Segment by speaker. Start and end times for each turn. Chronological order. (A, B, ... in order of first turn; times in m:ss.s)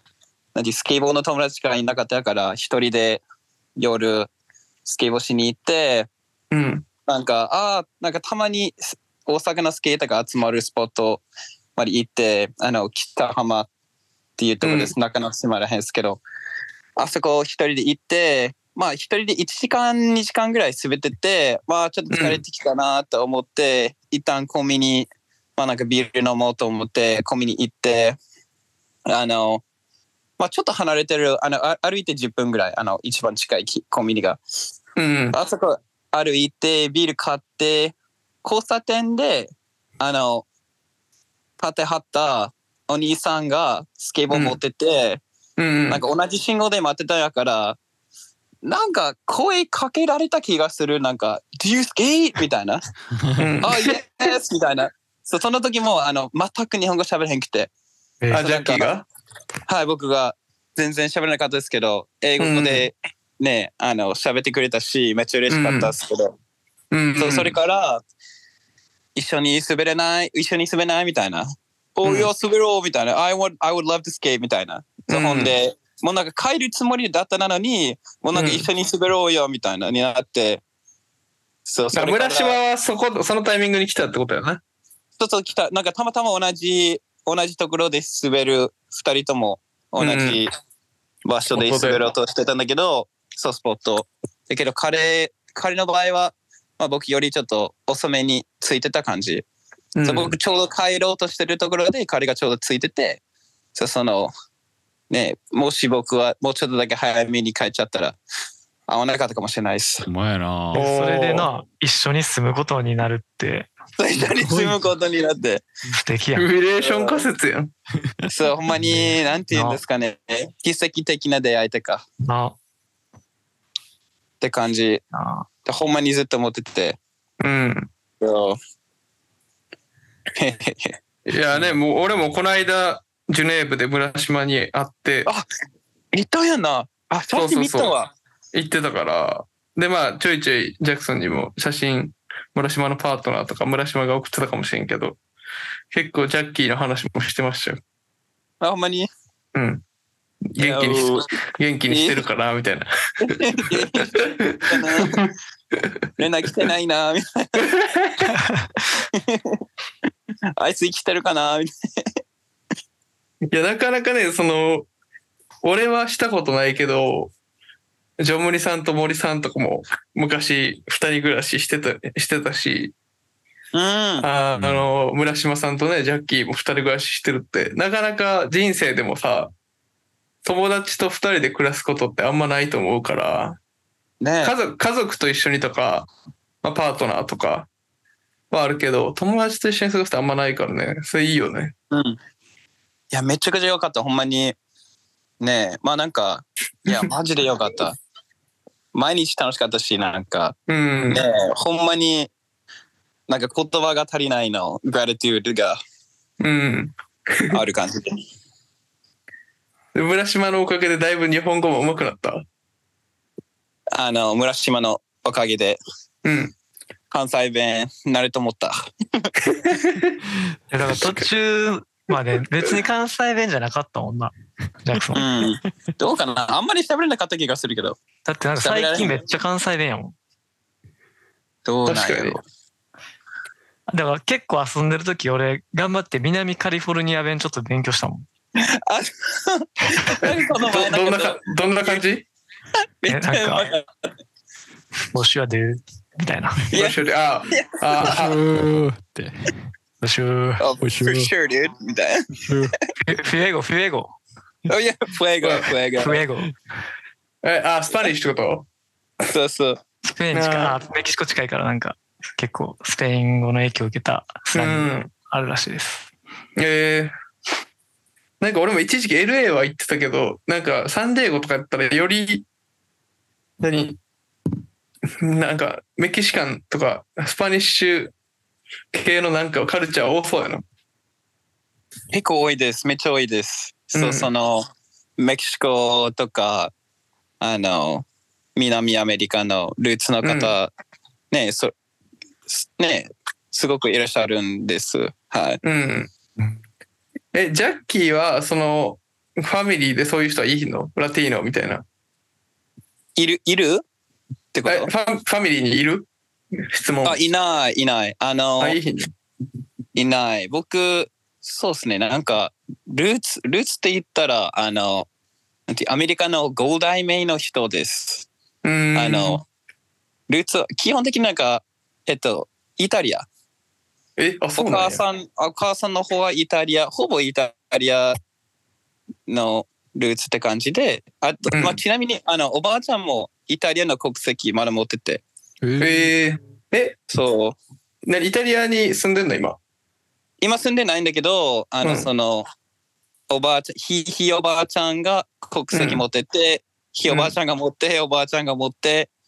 0:00.5-0:03.2 A
0:03.8-0:04.3 A
0:04.8-0:06.1 A
0:06.5-0:06.8 B
0:07.1-0:11.2 A
0:11.8-0:13.7 A
0:14.4-0:16.2 A
0:14.6-0:14.9 B
0:17.0-0:28.2 A
0:22.1-0:22.4 B
0:29.1-0:29.6 A
0:30.4-0:34.4 A
0:35.0-0:35.4 B
0:35.3-0:40.4 A
0:41.6-0:45.2 A
0:44.3-0:44.6 B
0:45.6-0:46.0 B
0:45.9-0:47.8 A
0:48.6-0:52.8 A
0:53.4-0:54.0 B
0:53.6-0:57.7 A
0:58.3-0:59.0 B
0:58.3-0:58.9 A
0:59.7-1:06.3 A
1:02.4-1:02.9 B
1:05.5-1:05.9 B
1:06.9-1:07.6 B
1:07.2-1:08.0 A
1:09.2-1:20.6 A
1:12.0-1:12.3 B
1:15.1-1:15.5 B
1:18.3-1:18.7 B
1:21.6-1:22.6 A
1:21.9-1:24.6 B
1:25.2-1:30.5 A
1:30.0-1:30.4 B
1:31.2-1:39.4 A
1:31.5-1:32.0 B
1:40.0-1:40.4 B
1:40.0-1:43.2 A
1:43.7-1:44.3 A
1:45.1-1:48.2 A
1:48.9-1:50.1 A
1:50.0-1:50.9 C
1:50.7-1:51.5 B
1:50.7-1:53.7 D
1:54.0-1:55.6 A
1:55.9-1:56.5 D
1:56.3-1:57.7 B
1:56.8-1:57.3 A
1:58.3-2:02.0 A
1:59.5-1:59.8 D
2:02.2-2:02.6 D
2:04.4-2:05.0 A
2:05.1-2:05.4 D
2:05.6-2:07.0 A
2:07.4-2:07.9 B
2:08.2-2:08.6 A
2:10.4-2:11.0 A
2:11.3-2:15.3 B
2:16.1-2:18.1 A
2:17.3-2:17.9 B
2:18.5-2:25.2 B
2:25.9-2:27.8 B
2:28.6-2:29.1 A
2:29.5-2:29.8 B
2:30.5-2:35.3 B
2:30.6-2:31.3 A
2:31.9-2:32.2 A
2:33.2-2:35.2 A
2:36.2-2:37.7 A
2:37.6-2:38.3 B
2:38.3-2:38.6 D
2:39.1-2:39.6 A
2:40.6-2:41.7 A
2:43.5-2:44.9 B
2:45.6-2:47.3 B
2:48.2-2:52.9 B
2:53.7-2:54.3 A
2:54.2-2:59.5 B
2:54.6-2:54.9 C
3:00.4-3:03.6 B
3:04.2-3:04.5 A
3:04.4-3:06.1 B
3:06.6-3:07.7 B
3:08.5-3:11.7 B
3:11.9-3:12.2 A
3:13.1-3:14.5 A
3:15.4-3:18.0 A
3:18.9-3:20.6 A
3:20.7-3:21.2 B
3:21.1-3:22.3 A
3:23.3-3:25.8 A
3:26.4-3:27.6 B
3:27.5-3:28.1 A
3:29.9-3:32.4 B
3:33.9-3:35.8 A
3:36.2-3:36.5 B
3:37.1-3:39.3 A
3:39.5-3:40.2 B
3:40.7-3:45.2 D
3:45.1-3:48.0 A
3:48.2-3:50.1 D
3:48.6-3:49.2 A
3:51.6-3:52.4 A
3:51.9-3:52.4 B
3:53.9-3:58.3 D
3:58.6-4:02.0 A
4:00.6-4:02.2 B
4:03.0-4:03.8 A
4:03.1-4:03.7 D
4:05.1-4:06.6 D
4:06.7-4:07.0 A
4:06.7-4:08.4 B
4:08.0-4:09.5 C
4:10.0-4:10.6 D
4:10.6-4:12.3 A
4:10.8-4:11.3 C
4:12.4-4:12.7 C
4:13.0-4:14.2 D
4:14.7-4:16.2 A
4:15.4-4:15.7 B
4:16.0-4:16.5 D
4:17.4-4:18.7 B
4:19.3-4:19.8 A
4:20.0-4:26.1 D
4:20.3-4:20.8 B
4:24.5-4:25.1 B
4:26.6-4:27.1 B
4:28.4-4:32.4 B
4:33.6-4:34.0 B
4:35.2-4:38.1 B
4:38.9-4:40.6 B
4:42.1-4:44.7 A
4:43.9-4:44.3 B
4:45.2-4:46.7 A
4:47.4-4:50.7 A
4:50.2-4:50.5 B
4:51.3-4:51.7 A
4:52.5-4:55.6 A
4:55.6-4:56.1 B
4:57.3-5:01.8 B
5:03.2-5:03.8 A
5:04.5-5:04.9 A
5:04.6-5:06.1 B
5:06.6-5:07.2 B
5:07.0-5:08.8 A
5:08.6-5:09.1 B
5:09.9-5:15.1 A
5:15.7-5:18.3 A
5:18.6-5:19.4 B
5:19.0-5:19.4 A
5:20.3-5:23.2 A
5:24.2-5:25.0 B
5:24.6-5:28.2 A
5:29.3-5:35.2 A
5:31.5-5:31.8 B
5:35.6-5:36.1 C
5:35.8-5:37.0 B
5:37.1-5:37.6 A
5:38.0-5:39.6 B
5:40.4-5:42.5 A
5:41.8-5:42.1 B
5:43.3-5:49.1 A
5:45.7-5:46.0 B
5:47.1-5:47.3 B